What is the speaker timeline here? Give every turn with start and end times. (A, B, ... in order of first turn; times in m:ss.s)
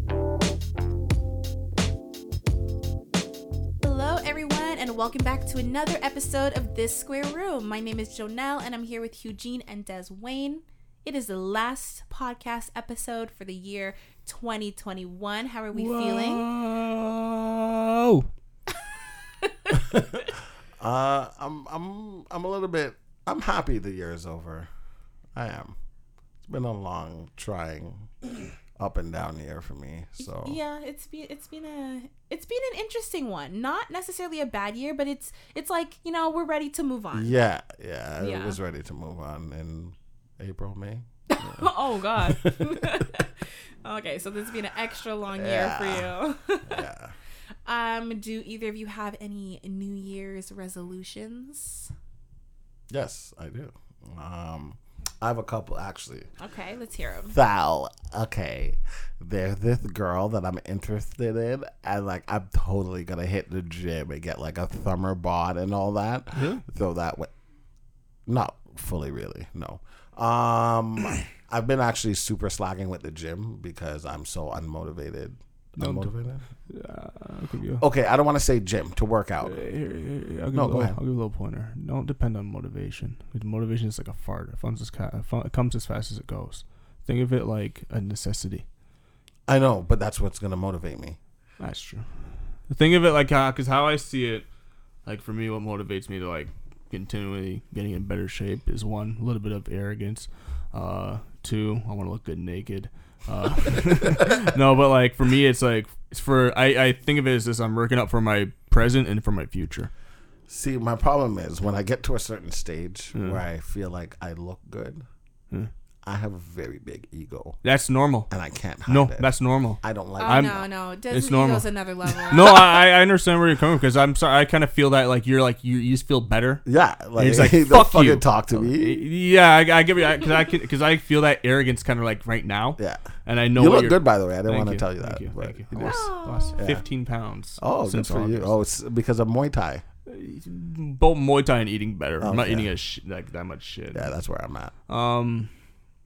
0:03.8-0:16.4 A
0:15.7-0:18.3 B
0:19.7-0:24.7 C
0:25.3-0:25.7 C
0:26.4-0:28.1 C
0:28.8-0:30.6 C
0:30.2-0:37.4 A
0:37.1-0:43.0 C
0:38.2-0:38.6 A
0:41.3-0:43.3 A
0:43.8-0:46.8 A
0:45.4-0:46.1 C
0:46.7-0:47.1 C
0:47.7-0:51.9 A
0:52.9-0:56.3 C
0:56.4-0:57.4 A
0:57.3-1:07.3 C
1:06.4-1:06.6 B
1:08.3-1:16.4 C
1:15.8-1:16.1 B
1:16.7-1:17.8 B
1:17.8-1:19.6 C
1:19.4-1:28.6 B
1:20.5-1:21.0 C
1:29.5-1:31.2 C
1:31.6-1:32.1 B
1:32.7-1:34.5 B
1:35.0-1:49.9 B
1:50.5-1:55.0 C
1:53.2-1:53.4 B
1:56.0-1:57.6 C
1:57.6-1:58.3 B
1:58.3-1:59.3 C
1:58.9-2:00.6 B
1:59.8-2:00.7 C
2:00.2-2:02.6 A
2:01.1-2:01.7 B
2:02.3-2:06.6 B
2:06.7-2:09.0 C
2:07.2-2:18.6 B
2:12.8-2:16.8 C
2:15.8-2:16.6 A
2:17.6-2:19.8 C
2:20.1-2:24.1 B
2:22.2-2:22.7 C
2:23.9-2:24.7 C
2:24.9-2:25.5 B